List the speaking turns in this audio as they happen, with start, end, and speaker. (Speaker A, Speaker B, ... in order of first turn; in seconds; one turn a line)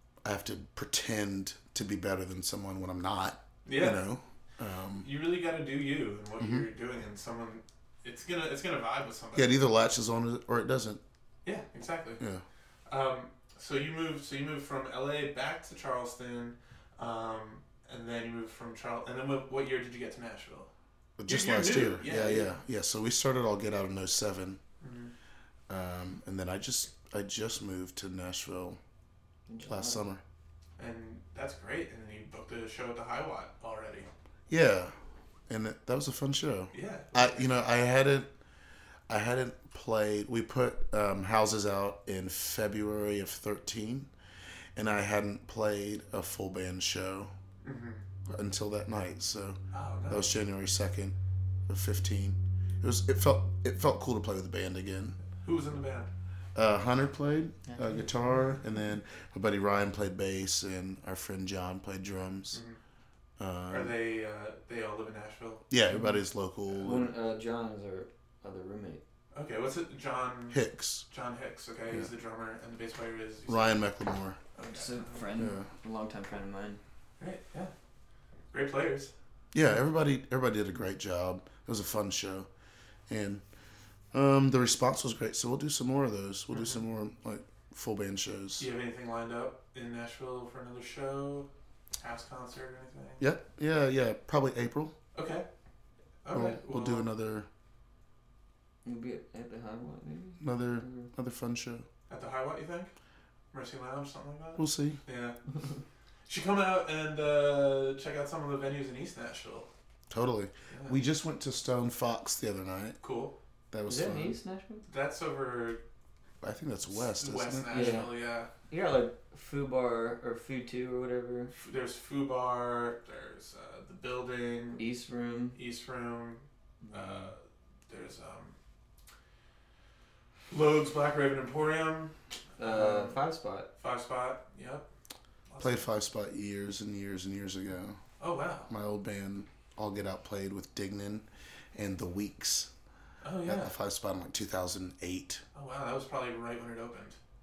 Speaker A: 0.2-5.1
Speaker B: 3.6-4.0
Speaker B: 5.0-9.5
Speaker A: 6.4-6.7
Speaker A: 9.3-11.0
Speaker B: 11.4-12.2
Speaker A: 12.2-12.4
Speaker B: 12.9-20.7
Speaker A: 21.2-24.6
Speaker B: 21.3-22.5
Speaker B: 24.8-25.1
Speaker A: 25.7-28.8
Speaker C: 29.5-30.1
Speaker A: 29.6-30.2
Speaker B: 30.8-34.1
Speaker A: 34.5-34.9
Speaker A: 35.5-38.3
Speaker B: 36.7-37.6
Speaker A: 39.1-44.1
Speaker A: 44.8-47.3
Speaker B: 47.6-48.0
Speaker A: 48.3-51.2
Speaker B: 49.7-50.3
Speaker A: 51.7-55.2
Speaker B: 55.4-56.1
Speaker A: 56.5-62.6
Speaker C: 57.7-58.1
Speaker B: 62.5-62.8
Speaker A: 63.4-63.9
Speaker B: 63.7-65.6
Speaker A: 65.7-67.1
Speaker C: 65.9-66.2
Speaker C: 66.8-69.0
Speaker B: 69.3-73.8
Speaker A: 70.5-71.0
Speaker A: 73.5-74.4
Speaker B: 74.6-75.3
Speaker C: 74.7-76.8
Speaker A: 75.4-75.7
Speaker B: 77.2-77.7
Speaker B: 78.5-79.1
Speaker A: 79.5-82.5
Speaker A: 83.1-83.4
Speaker A: 84.1-88.7
Speaker B: 86.5-86.8
Speaker B: 88.6-91.5
Speaker B: 92.0-93.2
Speaker A: 93.2-95.0
Speaker B: 95.1-95.5
Speaker B: 96.2-97.1
Speaker A: 96.3-97.5
Speaker C: 98.8-101.1
Speaker A: 100.4-101.9
Speaker B: 102.1-102.9
Speaker B: 103.5-105.4
Speaker A: 104.6-105.0
Speaker B: 106.3-109.7
Speaker A: 110.1-113.0
Speaker B: 110.7-111.0
Speaker B: 113.0-113.3
Speaker A: 113.7-114.3
Speaker C: 113.9-114.8
Speaker B: 114.9-115.8
Speaker A: 116.4-118.0
Speaker B: 116.9-118.5
Speaker C: 117.7-118.2
Speaker C: 118.7-121.5
Speaker B: 121.5-124.8
Speaker C: 124.7-125.6
Speaker B: 125.5-128.6
Speaker C: 126.8-127.3
Speaker B: 130.5-133.2
Speaker C: 132.6-133.7
Speaker B: 133.8-134.9
Speaker B: 135.5-135.9
Speaker A: 135.6-138.0
Speaker B: 138.2-138.7
Speaker A: 138.7-142.7
Speaker B: 143.2-143.8
Speaker A: 143.5-145.4
Speaker B: 145.6-147.2